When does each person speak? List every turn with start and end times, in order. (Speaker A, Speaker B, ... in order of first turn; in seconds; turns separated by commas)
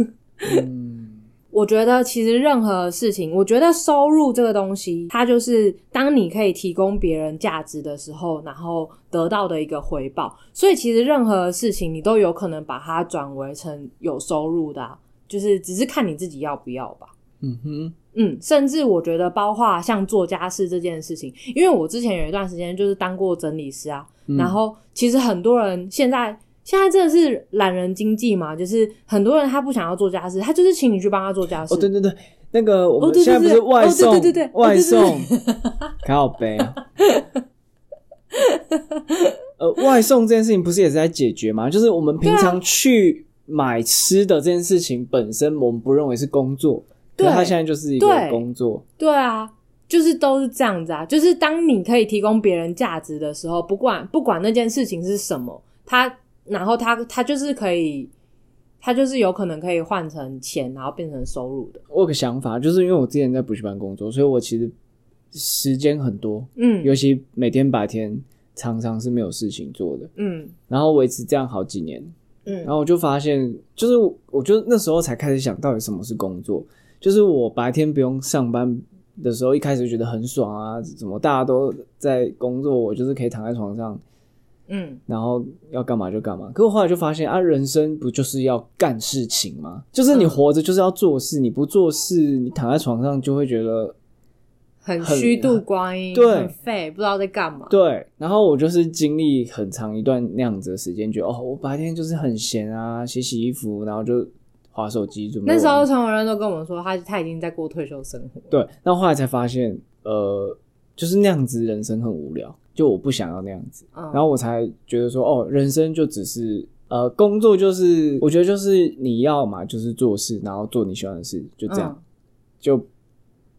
Speaker A: 0.4-0.7, Speaker B: 0.4-1.2, Speaker A: 1.5-17.1, Speaker B: 17.4-17.9, Speaker A: 18.1-31.9, Speaker B: 24.3-24.6, Speaker B: 31.7-35.3, Speaker A: 33.0-35.7, Speaker B: 36.0-36.8, Speaker A: 37.0-37.3, Speaker A: 38.4-39.3, Speaker B: 39.6-48.8, Speaker A: 42.2-42.6, Speaker A: 47.2-48.5, Speaker A: 49.0-58.1, Speaker A: 58.8-61.8, Speaker B: 61.9-64.7, Speaker B: 65.3-70.1, Speaker A: 66.6-66.9, Speaker A: 70.2-70.5, Speaker B: 70.7-72.1, Speaker A: 72.5-72.7, Speaker B: 72.6-84.0, Speaker A: 84.7-85.0, Speaker B: 85.1-94.0, Speaker A: 90.1-90.4, Speaker A: 94.8-97.7, Speaker B: 95.0-96.5, Speaker B: 97.7-105.9, Speaker A: 105.5-108.5, Speaker B: 108.5-121.9, Speaker A: 113.9-114.3, Speaker A: 121.7-122.0, Speaker B: 122.6-122.9